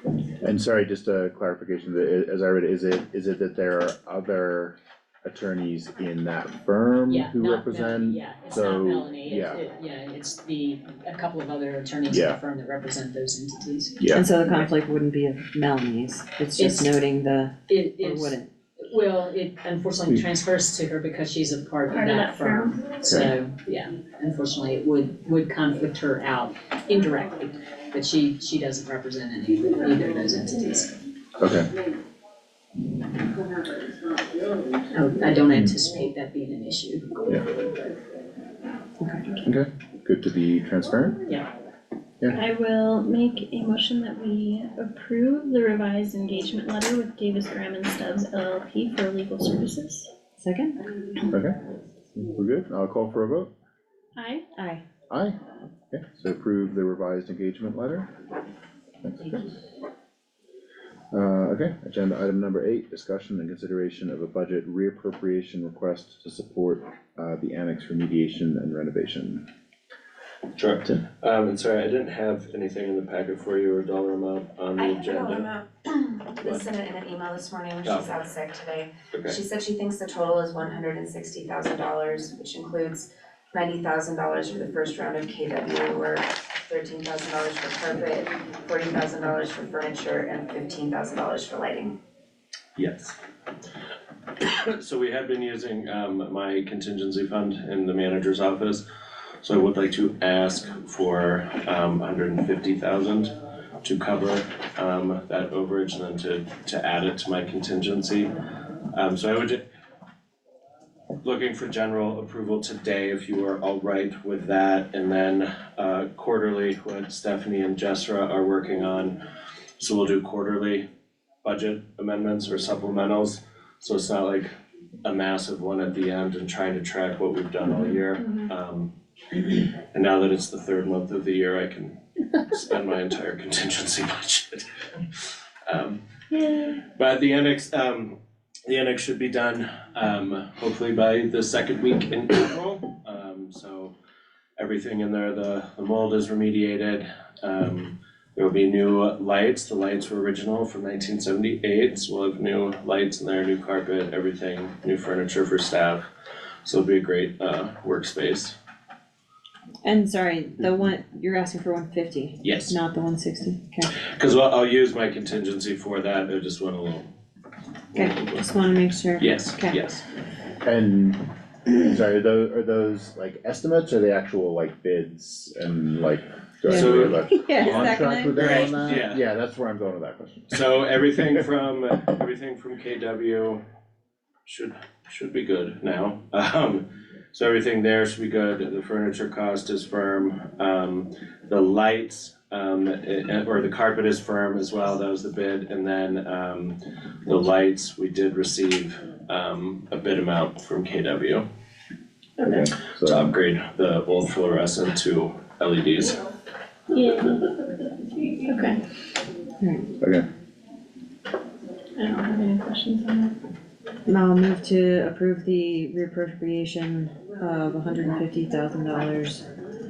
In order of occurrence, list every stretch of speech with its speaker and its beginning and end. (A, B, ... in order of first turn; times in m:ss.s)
0:00.4-0:09.6 A
0:07.1-0:14.1 B
0:12.1-0:12.4 A
0:14.1-0:18.5 C
0:16.6-0:16.9 B
0:17.7-0:30.9 B
0:21.9-0:22.8 D
0:31.4-0:31.7 A
0:34.9-0:37.2 B
0:35.5-0:35.8 A
0:39.0-0:39.3 C
0:39.4-0:41.2 A
0:42.3-0:50.1 D
0:50.4-0:50.8 C
0:51.3-0:51.6 A
0:52.1-0:53.5 A
0:54.2-0:54.4 D
0:54.6-0:54.8 C
0:55.1-0:55.4 A
0:55.9-0:58.1 A
0:59.0-0:59.5 A
1:01.1-1:09.4 A
1:10.5-1:15.5 E
1:14.8-1:32.0 F
1:17.8-1:18.2 E
1:19.1-1:19.4 E
1:32.8-1:33.1 E
1:34.4-1:38.8 E
1:39.4-1:43.3 E
1:43.8-1:48.3 E
1:48.9-1:49.6 E
1:51.2-1:59.2 E
1:59.8-2:00.8 E
2:01.4-2:04.5 E
2:05.0-2:16.0 E
2:16.3-2:16.8 D
2:16.9-2:23.9 E
2:24.6-2:36.1 E
2:36.6-2:38.6 E
2:39.8-2:43.9 C
2:42.4-2:42.8 E
2:44.0-2:47.1 E
2:47.9-2:48.4 E
2:47.9-2:49.8 C
2:49.2-2:50.0 E
2:50.6-3:00.7 A
2:56.7-2:58.6 C
2:56.7-2:59.2 E
3:00.5-3:03.6 E
3:04.4-3:21.4 E
3:22.4-3:23.2 A
3:23.0-3:26.2 E
3:26.9-3:27.5 D
3:28.4-3:28.8 D
3:29.6-3:29.9 C
3:30.0-3:30.3 A
3:32.0-3:33.4 D
3:34.1-3:39.4 C